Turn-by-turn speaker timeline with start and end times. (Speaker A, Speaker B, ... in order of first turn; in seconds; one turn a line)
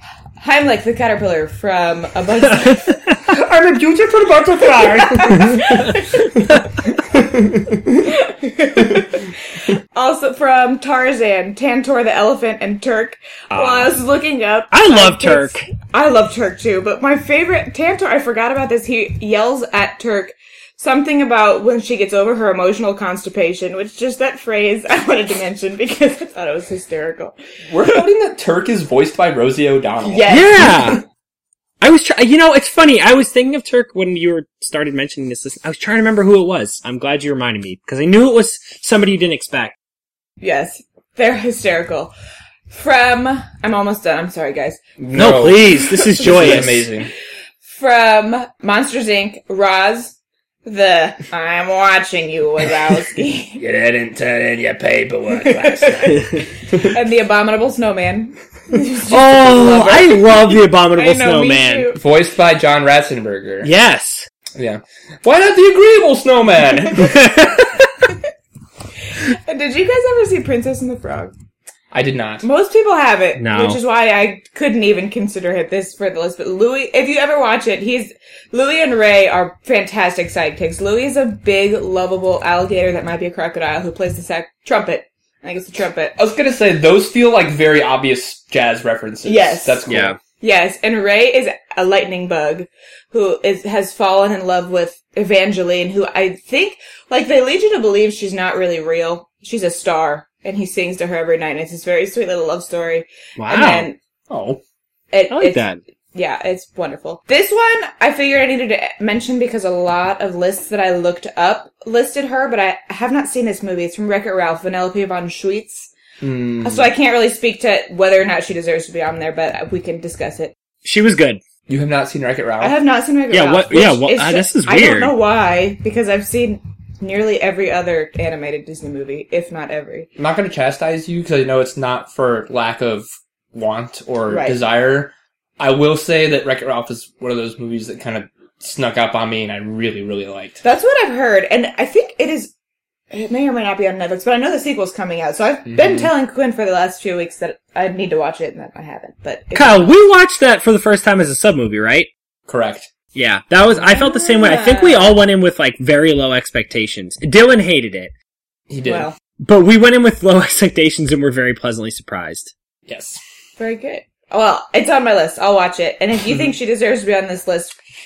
Speaker A: 0.4-3.2
Speaker B: 2.6-3.3
Speaker C: 3.3-8.1
Speaker B: 4.5-6.7
Speaker A: 4.9-6.4
Speaker A: 8.0-27.4
Speaker C: 8.8-9.1
Speaker B: 13.6-13.9
Speaker B: 14.7-15.7
Speaker C: 27.7-30.8
Speaker A: 30.0-31.0
Speaker B: 30.3-31.0
Speaker B: 31.8-39.8
Speaker A: 40.4-42.1
Speaker A: 42.7-44.8
Speaker C: 45.0-47.1
Speaker B: 45.1-46.9
Speaker A: 46.1-46.7
Speaker A: 47.7-53.6
Speaker C: 53.6-57.0
Speaker A: 55.3-62.0
Speaker B: 59.1-61.9
Speaker C: 62.0-63.7
Speaker B: 63.6-64.3
Speaker C: 64.5-67.3
Speaker B: 67.0-67.7
Speaker A: 69.1-71.3
Speaker C: 71.9-72.5
Speaker A: 72.4-86.2
Speaker B: 73.4-73.8
Speaker C: 86.2-90.2
Speaker A: 89.2-89.9
Speaker B: 89.9-90.2
Speaker A: 90.4-104.0
Speaker B: 103.4-103.9
Speaker C: 104.3-104.6
Speaker A: 105.1-105.6
Speaker B: 105.3-105.8
Speaker A: 106.2-115.9
Speaker C: 116.2-116.9
Speaker A: 116.6-120.5
Speaker B: 120.8-121.4
Speaker C: 121.7-122.8
Speaker A: 122.6-130.1
Speaker B: 123.3-125.1
Speaker C: 130.2-140.6
Speaker A: 134.3-134.6
Speaker A: 140.6-142.5
Speaker A: 143.1-149.9
Speaker C: 145.7-146.1
Speaker B: 149.6-152.1
Speaker C: 152.5-152.9
Speaker B: 153.1-158.1
Speaker A: 153.7-155.2
Speaker C: 158.7-159.1
Speaker A: 158.8-159.2
Speaker B: 159.4-162.5
Speaker C: 162.9-163.2
Speaker A: 163.6-167.8